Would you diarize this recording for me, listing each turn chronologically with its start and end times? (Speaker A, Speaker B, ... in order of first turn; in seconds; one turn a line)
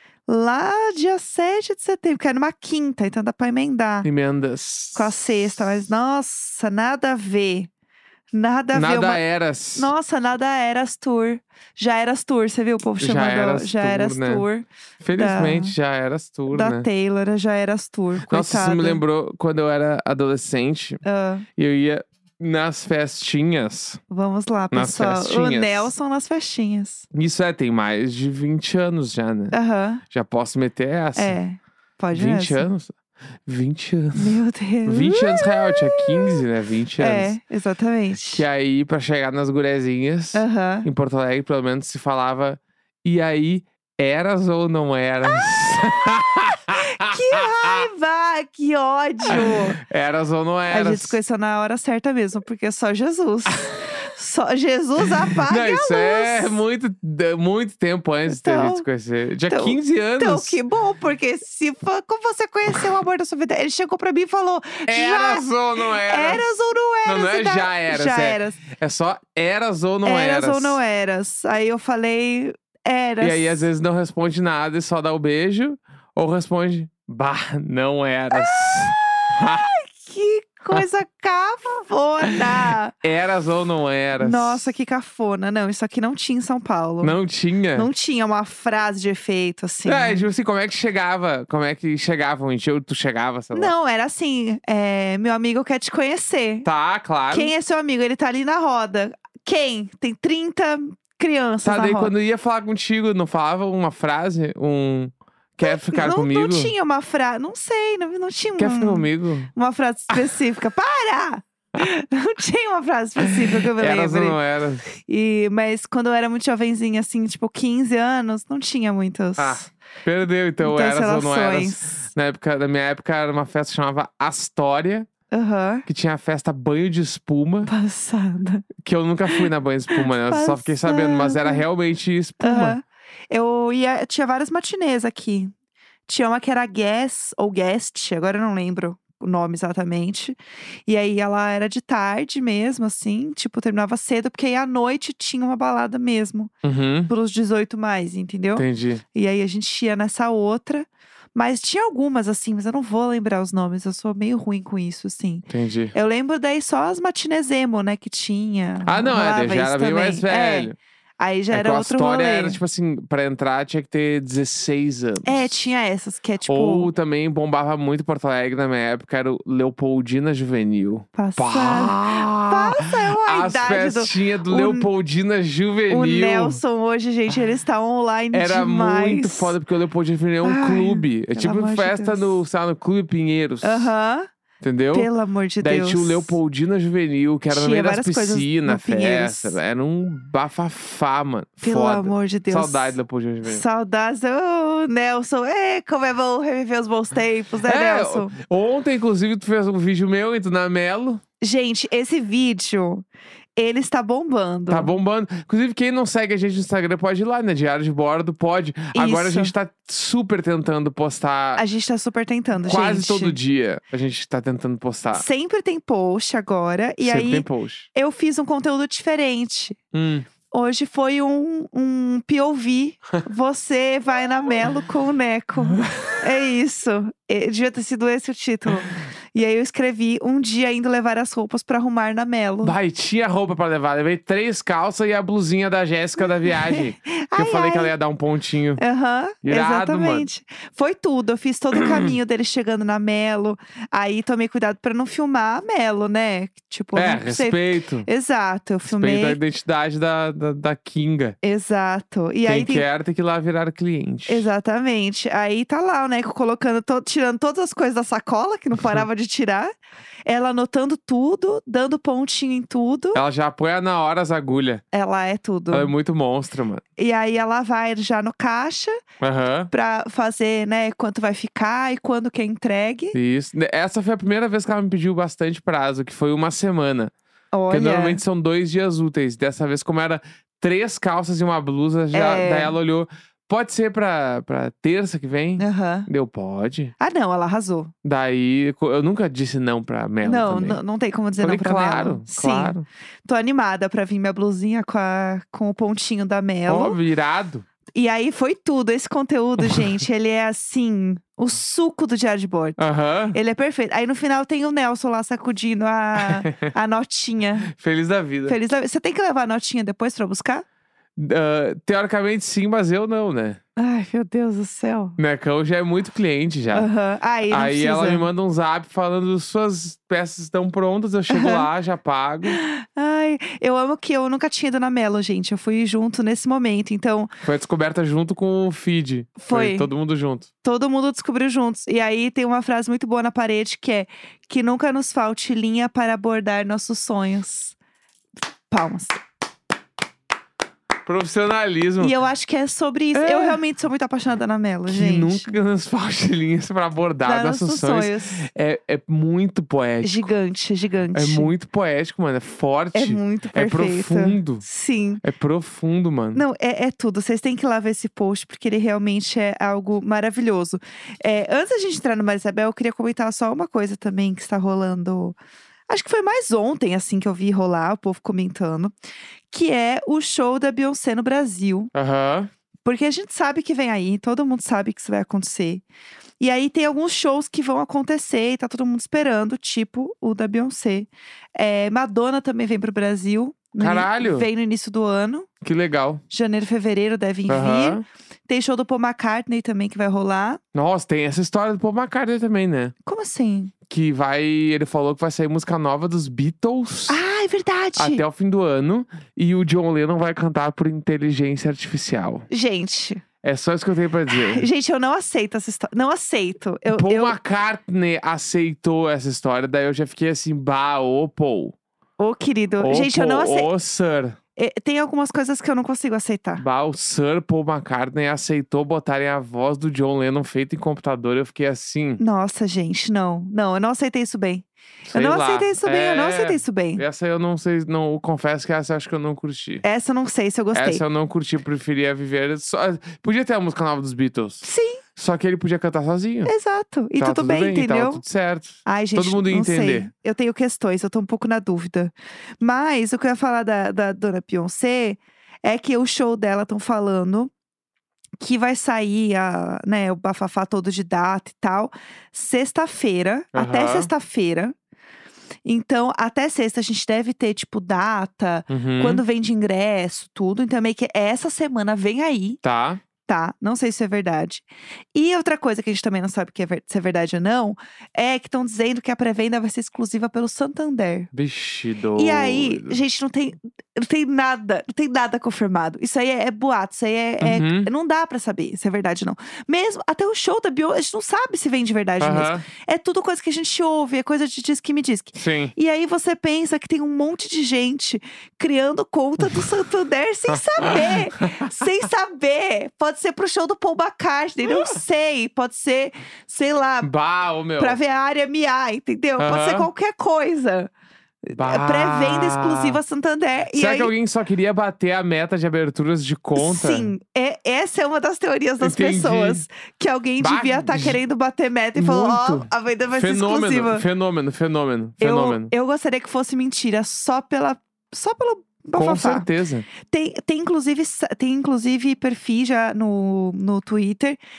Speaker A: 0.3-4.1
Speaker B: 4.0-5.1
Speaker A: 5.0-7.7
Speaker A: 8.3-9.2
Speaker B: 8.7-9.9
Speaker A: 9.8-15.8
Speaker B: 13.0-14.5
Speaker B: 15.0-16.9
Speaker A: 16.5-19.0
Speaker B: 18.3-21.0
Speaker A: 21.0-21.5
Speaker B: 21.6-24.0
Speaker A: 24.1-27.1
Speaker B: 24.7-25.9
Speaker B: 27.1-29.6
Speaker A: 29.5-30.0
Speaker B: 30.1-31.4
Speaker A: 31.2-32.7
Speaker B: 32.1-37.4
Speaker A: 34.1-36.4
Speaker A: 37.0-38.5
Speaker B: 38.1-47.9
Speaker A: 40.3-40.9
Speaker A: 46.8-49.8
Speaker B: 49.2-51.2
Speaker A: 50.7-56.6
Speaker B: 55.3-60.6
Speaker A: 58.3-58.9
Speaker A: 59.5-68.6
Speaker B: 64.9-70.8
Speaker A: 70.0-73.7
Speaker B: 73.2-79.7
Speaker A: 78.3-83.0
Speaker B: 82.3-84.7
Speaker A: 84.2-87.2
Speaker B: 87.0-87.9
Speaker A: 87.8-90.3
Speaker B: 89.8-93.7
Speaker A: 93.5-96.7
Speaker B: 96.7-97.5
Speaker A: 97.3-102.1
Speaker B: 101.6-106.7
Speaker A: 105.6-114.4
Speaker B: 108.6-109.5
Speaker B: 113.3-114.9
Speaker A: 114.9-119.7
Speaker B: 119.4-125.1
Speaker A: 120.6-122.0
Speaker A: 125.3-125.8
Speaker B: 125.9-127.7
Speaker A: 127.7-128.7
Speaker B: 128.8-132.8
Speaker A: 129.3-131.6
Speaker A: 132.4-135.5
Speaker A: 136.1-146.5
Speaker B: 146.6-147.1
Speaker A: 147.1-162.6
Speaker B: 148.6-149.0
Speaker B: 155.5-155.9
Speaker B: 158.9-160.8
Speaker B: 161.5-165.5
Speaker A: 165.2-166.9
Speaker B: 166.5-176.6
Speaker A: 171.2-174.9
Speaker A: 175.9-179.5
Speaker B: 178.3-183.9
Speaker A: 180.4-182.4
Speaker A: 183.6-184.3
Speaker B: 184.6-185.1
Speaker A: 184.9-186.4
Speaker B: 185.6-193.6
Speaker A: 187.5-189.6
Speaker A: 191.6-198.3
Speaker B: 197.6-201.2
Speaker A: 201.4-203.1
Speaker A: 203.6-204.9
Speaker B: 204.7-211.6
Speaker A: 208.9-209.5
Speaker A: 211.6-213.4
Speaker B: 212.6-215.2
Speaker A: 215.1-219.8
Speaker B: 217.0-217.9
Speaker B: 219.9-220.3
Speaker A: 220.5-232.8
Speaker B: 232.6-238.8
Speaker A: 236.5-237.9
Speaker A: 238.8-249.4
Speaker B: 239.4-240.3
Speaker B: 241.8-242.1
Speaker B: 246.9-248.1
Speaker B: 248.8-251.4
Speaker A: 251.4-252.9
Speaker B: 252.4-254.5
Speaker A: 254.3-259.7
Speaker A: 260.3-263.2
Speaker B: 263.1-264.8
Speaker A: 264.9-265.9
Speaker B: 265.7-266.8
Speaker A: 267.0-269.0
Speaker B: 269.2-269.7
Speaker A: 269.7-273.2
Speaker B: 273.1-277.1
Speaker A: 277.5-278.2
Speaker B: 277.7-286.9
Speaker A: 282.1-282.8
Speaker A: 285.6-286.1
Speaker A: 287.0-287.9
Speaker B: 288.0-290.8
Speaker A: 290.2-297.0
Speaker B: 291.4-292.9
Speaker B: 296.7-297.7
Speaker A: 297.9-307.7
Speaker B: 302.8-303.4
Speaker B: 306.2-306.6
Speaker B: 307.7-308.6
Speaker A: 308.5-310.6
Speaker B: 311.2-313.6
Speaker A: 313.8-315.2
Speaker B: 315.2-316.9
Speaker A: 316.7-318.3
Speaker B: 317.5-322.6
Speaker A: 321.3-321.7
Speaker A: 322.5-327.3
Speaker B: 327.4-330.5
Speaker A: 329.4-329.9
Speaker A: 330.6-337.8
Speaker A: 338.7-339.2
Speaker B: 341.1-342.1
Speaker A: 342.0-345.6
Speaker B: 343.1-343.6
Speaker B: 344.9-350.3
Speaker A: 347.2-348.4
Speaker A: 350.0-351.5
Speaker B: 351.1-354.6
Speaker A: 352.9-355.2
Speaker B: 355.2-356.4
Speaker A: 356.3-365.4
Speaker A: 365.9-368.9
Speaker A: 369.5-371.9
Speaker B: 371.9-372.5
Speaker A: 372.9-375.8
Speaker A: 376.4-385.5
Speaker B: 383.8-384.5
Speaker B: 385.6-386.2
Speaker A: 386.3-390.6
Speaker B: 387.5-388.0
Speaker B: 390.7-392.9
Speaker A: 393.1-393.7
Speaker B: 393.9-397.2
Speaker A: 397.1-398.2
Speaker B: 398.0-402.5
Speaker A: 402.5-403.2
Speaker B: 403.4-404.7
Speaker A: 404.3-407.4
Speaker B: 406.9-411.8
Speaker A: 412.2-413.7
Speaker B: 412.8-414.4
Speaker A: 414.6-416.6
Speaker B: 416.6-422.2
Speaker A: 422.2-427.0
Speaker B: 425.1-429.8
Speaker A: 429.8-431.0
Speaker B: 430.7-434.6
Speaker A: 434.6-435.0
Speaker B: 435.2-436.5
Speaker A: 436.4-438.2
Speaker B: 437.2-440.1
Speaker A: 438.9-447.5
Speaker A: 448.4-454.7
Speaker B: 453.5-454.1
Speaker A: 455.6-462.6
Speaker B: 458.7-459.2
Speaker B: 462.6-463.0
Speaker A: 463.3-471.3
Speaker B: 471.3-473.0
Speaker A: 472.2-497.1
Speaker B: 477.4-477.9
Speaker B: 482.2-482.6
Speaker B: 485.4-485.7
Speaker B: 490.5-491.7
Speaker B: 494.6-495.0
Speaker B: 497.0-498.0
Speaker A: 497.8-500.9
Speaker B: 499.4-499.9
Speaker A: 501.4-504.1
Speaker B: 501.6-503.0
Speaker B: 503.7-507.1
Speaker A: 506.6-514.0
Speaker B: 508.8-509.6
Speaker B: 510.4-511.2
Speaker B: 511.9-515.7
Speaker A: 515.2-519.5
Speaker B: 519.0-519.9
Speaker A: 520.0-524.4